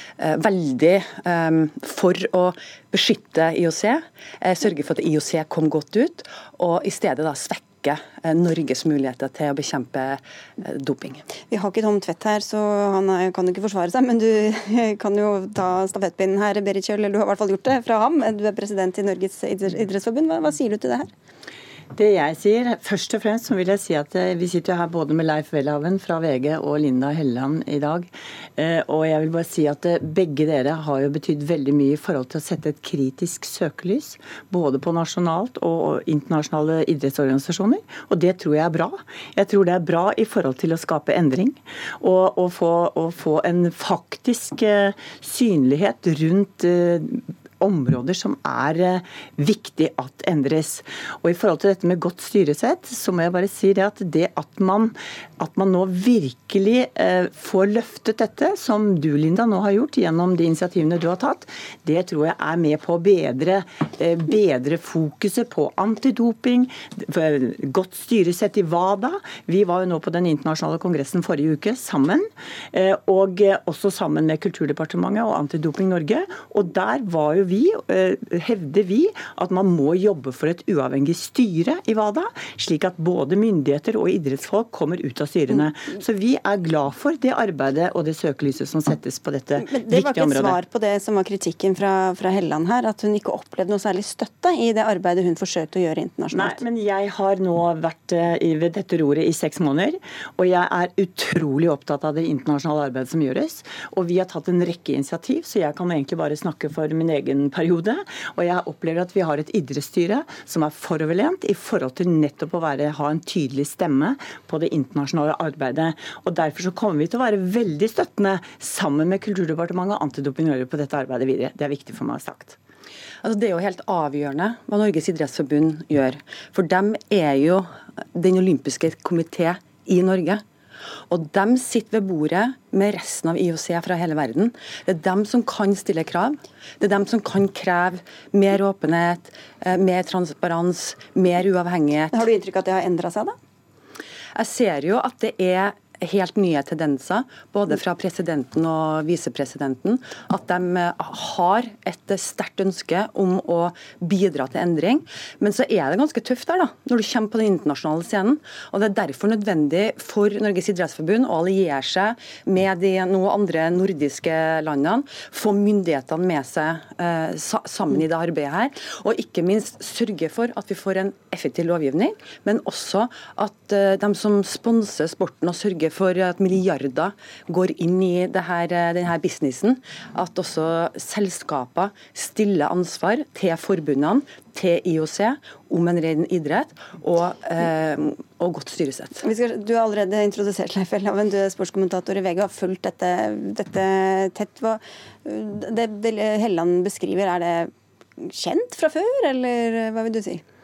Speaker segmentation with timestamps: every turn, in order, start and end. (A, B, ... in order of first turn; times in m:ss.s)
0:00.2-0:11.3 A
0:11.5-0:21.1 B
0:22.0-1:30.6 C
1:29.6-1:36.6 B
1:36.3-2:02.6 C
2:03.2-2:10.4 A
2:11.1-2:22.2 A
2:22.1-2:23.4 B
2:24.4-3:09.2 A
3:09.2-3:20.4 B